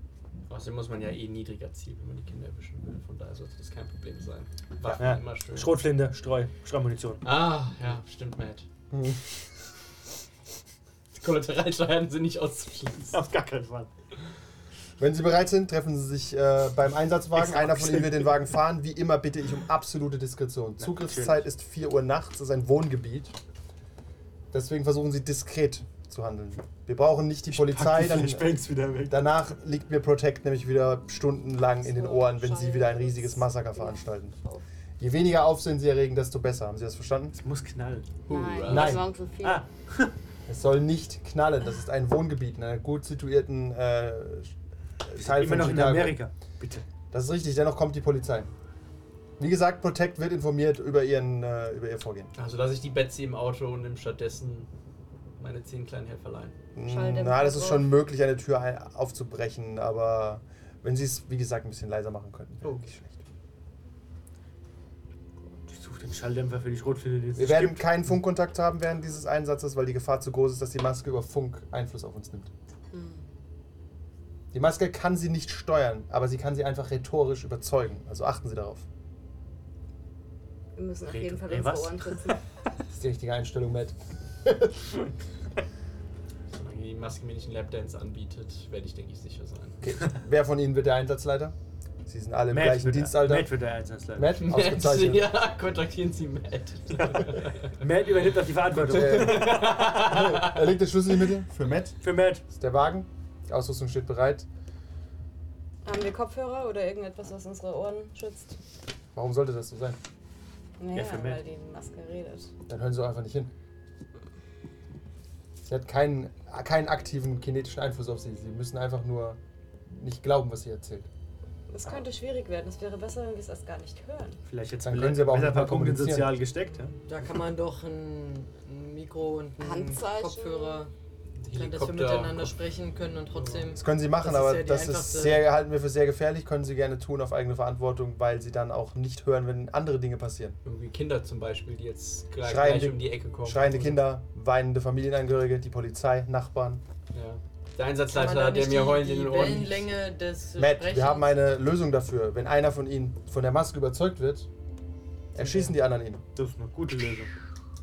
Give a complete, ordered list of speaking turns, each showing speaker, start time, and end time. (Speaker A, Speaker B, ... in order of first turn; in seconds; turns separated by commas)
Speaker A: 0.5-5.8, Speaker B: 5.0-7.2, Speaker A: 7.2-8.7, Speaker C: 8.9-9.2, Speaker A: 11.2-13.2, Speaker B: 13.1-13.9, Speaker C: 15.0-23.4, Speaker B: 17.3-18.3, Speaker B: 20.8-21.4, Speaker C: 24.5-28.6, Speaker B: 27.5-29.2, Speaker C: 29.1-34.4, Speaker D: 31.8-34.6, Speaker C: 35.0-37.4, Speaker B: 37.4-38.1, Speaker A: 38.3-39.0, Speaker D: 38.3-39.6, Speaker C: 38.7-39.0, Speaker B: 38.9-40.1, Speaker C: 40.5-44.5, Speaker C: 45.0-46.2, Speaker B: 45.2-46.9, Speaker C: 47.1-48.5, Speaker C: 49.4-52.3, Speaker A: 52.4-54.7, Speaker A: 55.4-56.6, Speaker C: 56.8-63.2, Speaker D: 56.9-57.9, Speaker B: 65.7-67.9, Speaker C: 67.4-72.5, Speaker D: 72.9-73.2, Speaker C: 74.5-78.9, Speaker D: 80.8-82.4, Speaker B: 81.0-82.4, Speaker C: 82.9-84.8, Speaker A: 86.5-89.8, Speaker C: 89.8-91.5, Speaker C: 92.1-93.5, Speaker B: 92.5-94.4, Speaker C: 94.2-95.3, Speaker A: 94.4-97.7, Speaker B: 97.0-100.4, Speaker C: 98.8-102.0, Speaker A: 98.9-100.6, Speaker B: 102.0-102.4, Speaker C: 102.5-104.5, Speaker D: 105.8-108.6, Speaker C: 109.1-110.0, Speaker D: 110.8-112.5, Speaker B: 110.9-111.4, Speaker C: 112.7-113.5, Speaker C: 115.6-121.1, Speaker D: 121.7-124.4, Speaker B: 124.5-126.9, Speaker C: 124.8-126.4, Speaker E: 127.1-130.9, Speaker D: 129.6-130.8, Speaker A: 131.4-132.6, Speaker E: 131.5-135.4, Speaker A: 133.3-133.7, Speaker C: 133.8-140.6, Speaker A: 140.7-144.0, Speaker C: 142.4-146.8, Speaker A: 147.1-149.9, Speaker E: 148.1-151.3, Speaker C: 150.6-154.5, Speaker C: 155.3-156.2, Speaker B: 156.4-157.3